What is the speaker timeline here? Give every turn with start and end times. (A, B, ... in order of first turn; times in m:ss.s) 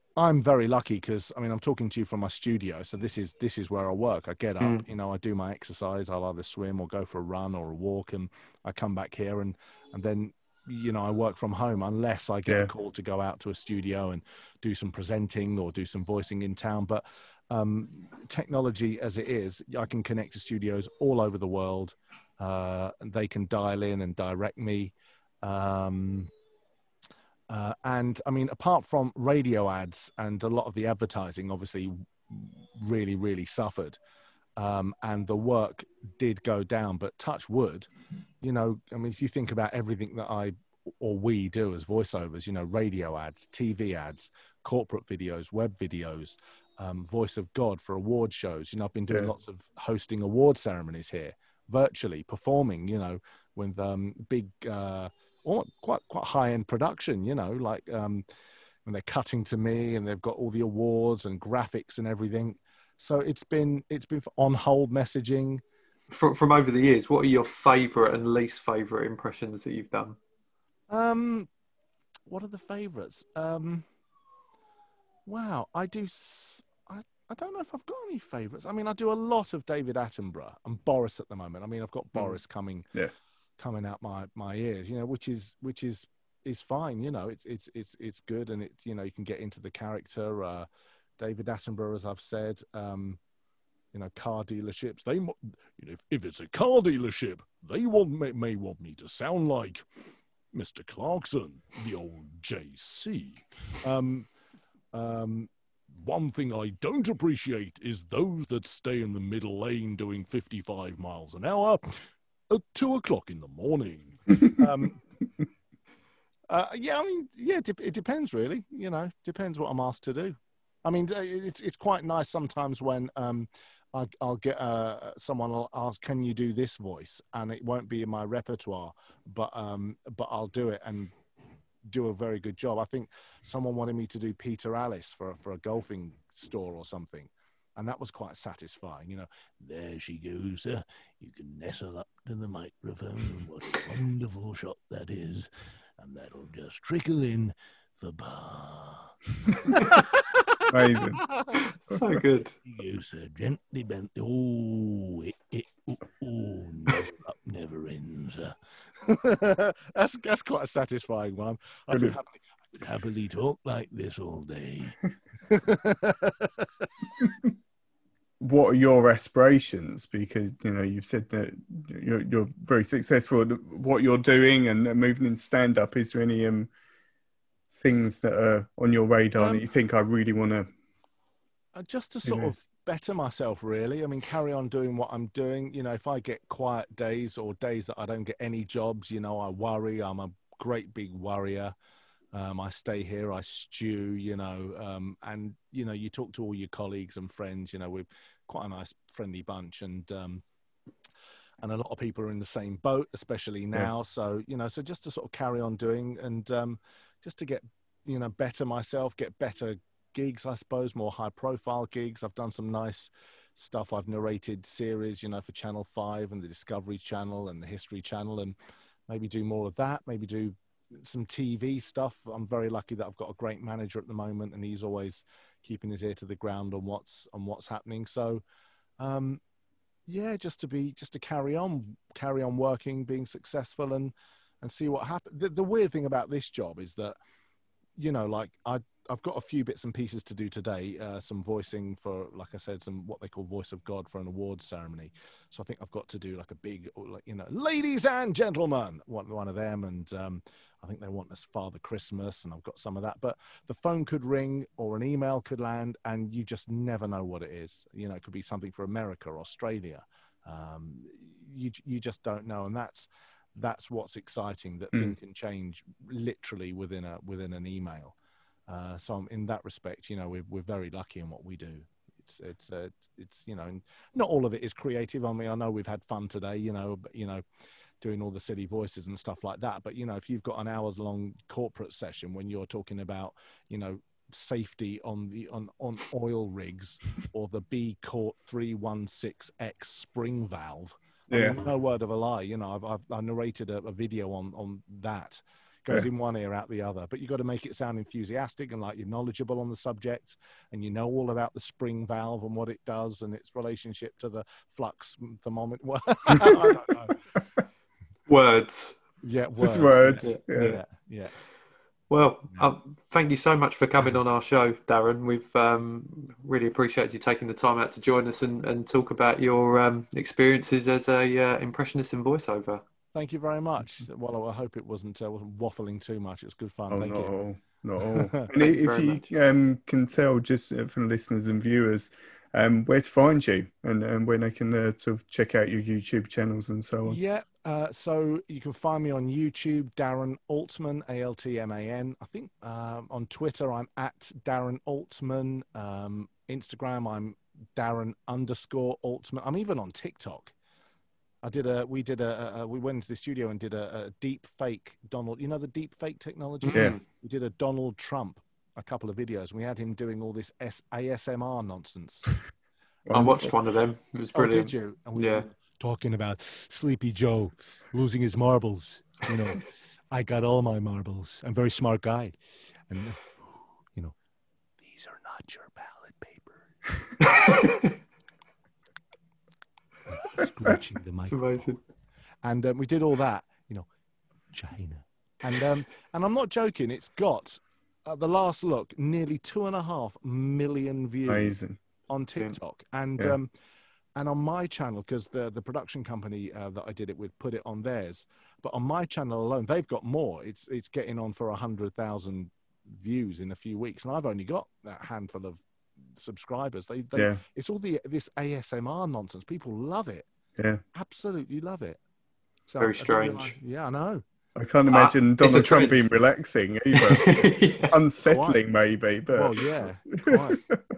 0:00.2-0:26.3 A
0:27.5-0:34.0 A
0:34.6-0:37.9 A
0:38.4-0:58.2 A
0:58.8-1:05.6 A
1:06.1-1:10.2 B
1:10.9-1:11.5 A
1:12.3-1:13.8 A
1:15.2-1:22.9 A
1:23.6-1:30.7 A
1:31.2-1:33.2 A
1:33.9-1:39.9 A
1:40.5-1:44.3 A
1:44.9-1:55.0 A
1:56.5-2:11.1 A
2:11.8-2:31.5 A
2:30.7-2:31.2 C
2:31.5-2:32.5 B
2:32.6-2:46.9 A
2:41.9-2:42.2 C
2:48.4-2:56.7 C
2:57.7-3:00.7 C
2:59.4-2:59.7 A
3:01.7-3:11.7 A
3:02.2-3:02.5 C
3:12.3-3:20.4 A
3:21.6-3:38.5 A
3:39.1-3:48.4 A
3:49.0-3:49.4 A
3:50.1-3:57.2 A
3:58.0-4:28.1 A
4:28.7-4:37.4 A
4:38.0-5:07.2 A
4:51.3-4:51.6 C
5:06.3-5:06.7 C
5:08.3-5:09.0 B
5:09.2-5:11.3 A
5:09.6-5:10.8 C
5:10.2-5:10.8 B
5:12.1-5:22.8 B
5:23.1-5:27.3 A
5:26.9-5:37.2 C
5:28.0-5:28.5 A
5:28.5-5:29.2 B
5:37.0-5:50.5 A
5:51.4-6:02.2 A
5:56.6-5:57.0 B
6:03.1-6:03.5 C
6:03.1-6:05.5 B
6:04.3-6:12.4 A
6:12.9-6:13.3 A
6:14.8-6:16.7 A
6:17.3-6:17.9 B
6:20.1-6:21.8 A
6:21.3-6:21.8 B
6:22.4-6:23.9 A
6:24.5-6:31.6 A
6:31.3-6:31.8 C
6:32.1-6:33.5 A
6:34.2-6:45.6 A
6:46.1-6:50.3 A
6:50.6-6:50.8 C
6:50.9-6:52.0 A
6:52.7-6:54.2 A
6:52.8-6:53.5 B
6:54.6-7:00.8 C
6:54.9-6:56.0 B
6:56.9-6:57.9 B
6:58.2-6:58.6 A
6:59.3-7:00.6 A